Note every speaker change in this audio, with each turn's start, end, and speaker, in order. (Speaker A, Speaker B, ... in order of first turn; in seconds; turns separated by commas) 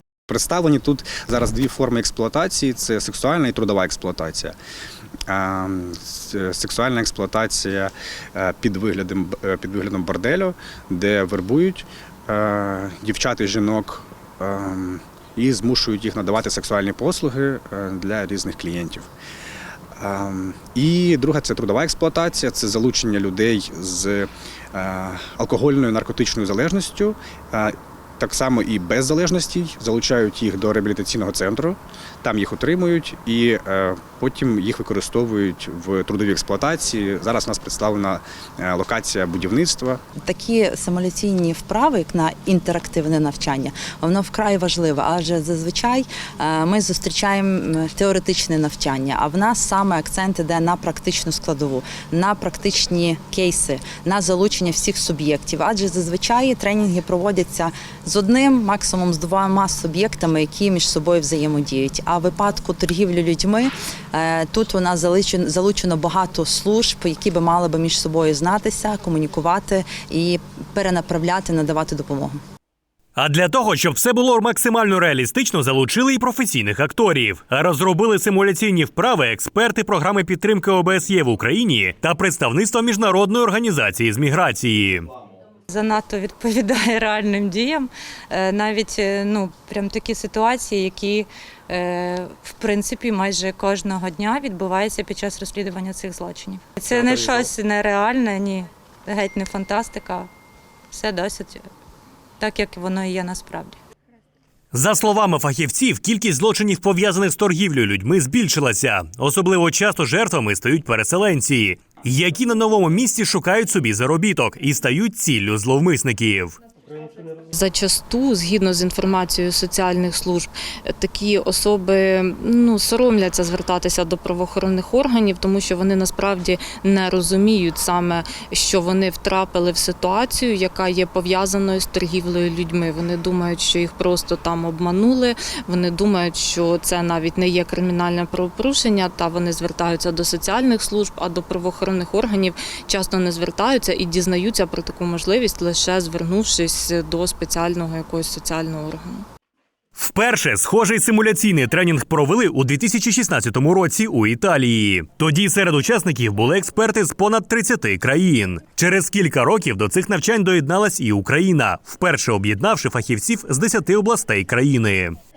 Speaker A: 0.3-4.5, Speaker A: 5.3-19.1, Speaker A: 20.0-40.0, Speaker B: 40.2-72.4, Speaker C: 73.2-85.0, Speaker D: 85.7-100.3, Speaker D: 100.9-101.7, Speaker D: 102.4-103.8, Speaker C: 104.7-116.6, Speaker E: 117.5-149.2, Speaker C: 149.9-165.2